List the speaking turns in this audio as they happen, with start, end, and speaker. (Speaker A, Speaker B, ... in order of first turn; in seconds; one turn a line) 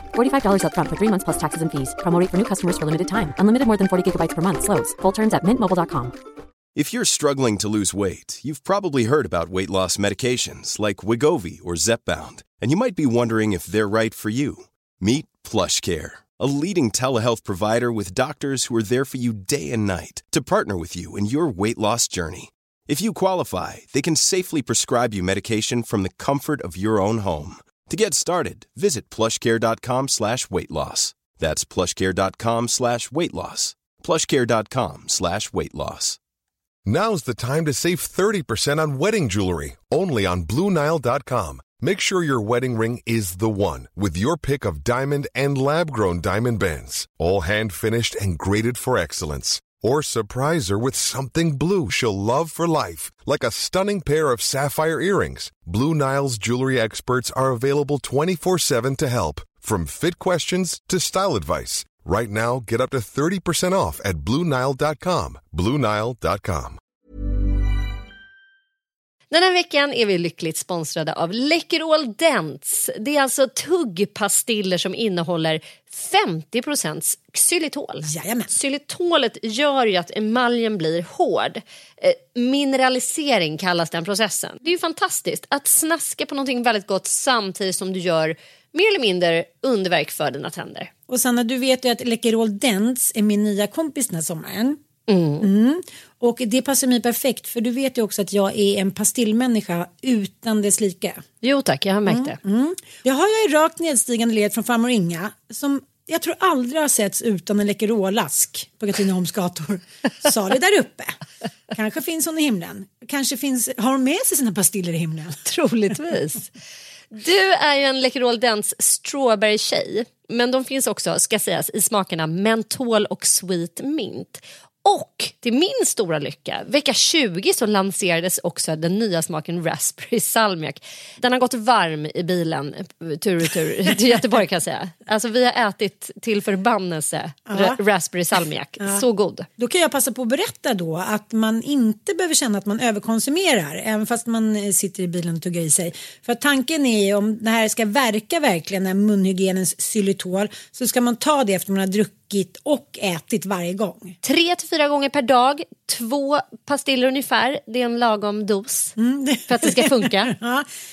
Speaker A: 0.1-6.2
Speaker B: 6.8-36.2
Speaker C: 36.9-66.8
Speaker D: 69.3-90.9
Speaker E: 78.0-78.5
Speaker E: 91.1-94.8
Speaker D: 95.1-95.4
Speaker E: 95.4-101.2
Speaker D: 101.4-102.3
Speaker E: 102.1-111.2
Speaker E: 111.7-116.0
Speaker D: 117.1-139.5
Speaker E: 137.5-137.8
Speaker E: 139.6-154.2
Speaker D: 154.2-158.9
Speaker E: 159.0-160.7
Speaker D: 159.5-160.3